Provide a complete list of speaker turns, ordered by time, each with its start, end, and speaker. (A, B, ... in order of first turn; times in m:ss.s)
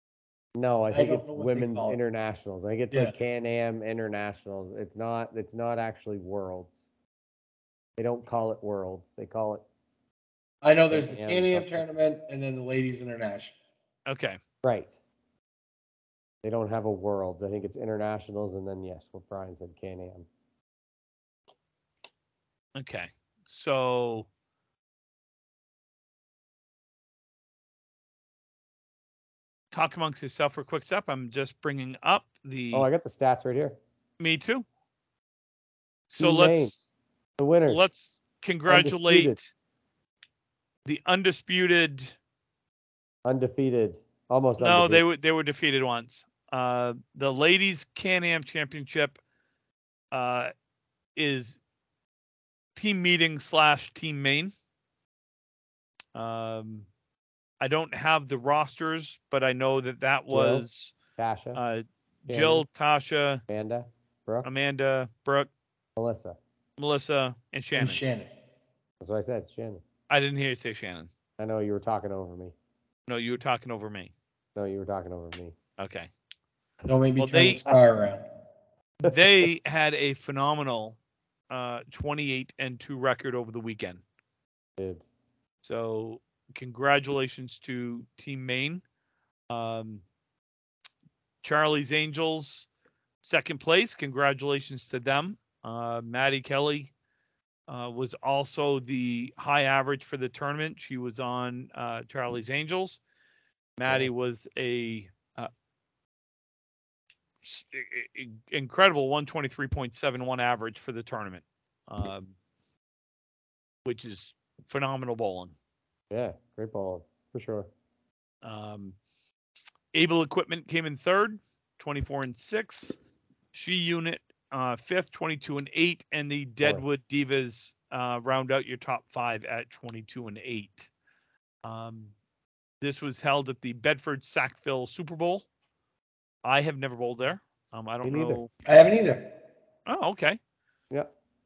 0:00.6-0:06.8 A
0:00.9-0:02.0 B
0:08.0-0:09.6 A
0:10.6-0:13.6 B
0:10.9-0:11.8 A
0:14.0-0:14.4 C
0:14.6-0:14.9 A
0:16.4-0:20.2 A
0:22.7-0:24.3 C
0:29.7-0:32.9 C
0:32.7-0:33.8 A
0:34.2-0:34.6 C
0:36.1-0:36.9 C
0:36.2-0:36.7 A
0:37.4-0:37.8 A
0:37.7-0:39.5 C
0:38.7-0:39.4 A
0:40.8-0:42.2 C
0:43.2-0:45.0 A
0:44.6-0:49.2 C
0:50.1-0:50.5 C
0:51.2-0:51.6 C
0:52.8-0:54.5 C
0:56.1-0:56.9 C
0:57.6-1:00.9 C
1:00.3-1:00.6 A
1:01.2-1:01.6 A
1:01.5-1:03.4 C
1:02.3-1:02.6 A
1:03.5-1:04.5 A
1:04.4-1:05.5 C
1:06.0-1:06.4 A
1:06.8-1:08.0 C
1:07.8-1:08.3 B
1:09.0-1:09.8 A
1:10.1-1:11.1 C
1:11.4-1:12.5 A
1:13.1-1:14.1 C
1:14.5-1:15.5 A
1:15.8-1:16.1 C
1:16.8-1:18.2 B
1:17.2-1:17.6 C
1:19.0-1:21.0 C
1:21.5-1:24.0 C
1:24.8-1:25.0 A
1:25.6-1:28.8 C
1:29.5-1:30.0 C
1:31.4-1:32.7 C
1:33.2-1:36.9 C
1:37.7-1:43.0 C
1:43.8-1:45.5 C
1:43.9-1:44.1 A
1:47.4-1:52.3 C
1:53.8-1:55.5 C
1:56.1-1:57.7 A
1:58.4-1:59.0 C
1:59.9-2:03.0 C
2:03.5-2:10.9 C
2:11.6-2:12.1 C
2:12.8-2:15.4 C
2:16.4-2:18.5 C
2:18.0-2:18.4 A
2:18.6-2:19.3 B
2:19.9-2:20.4 C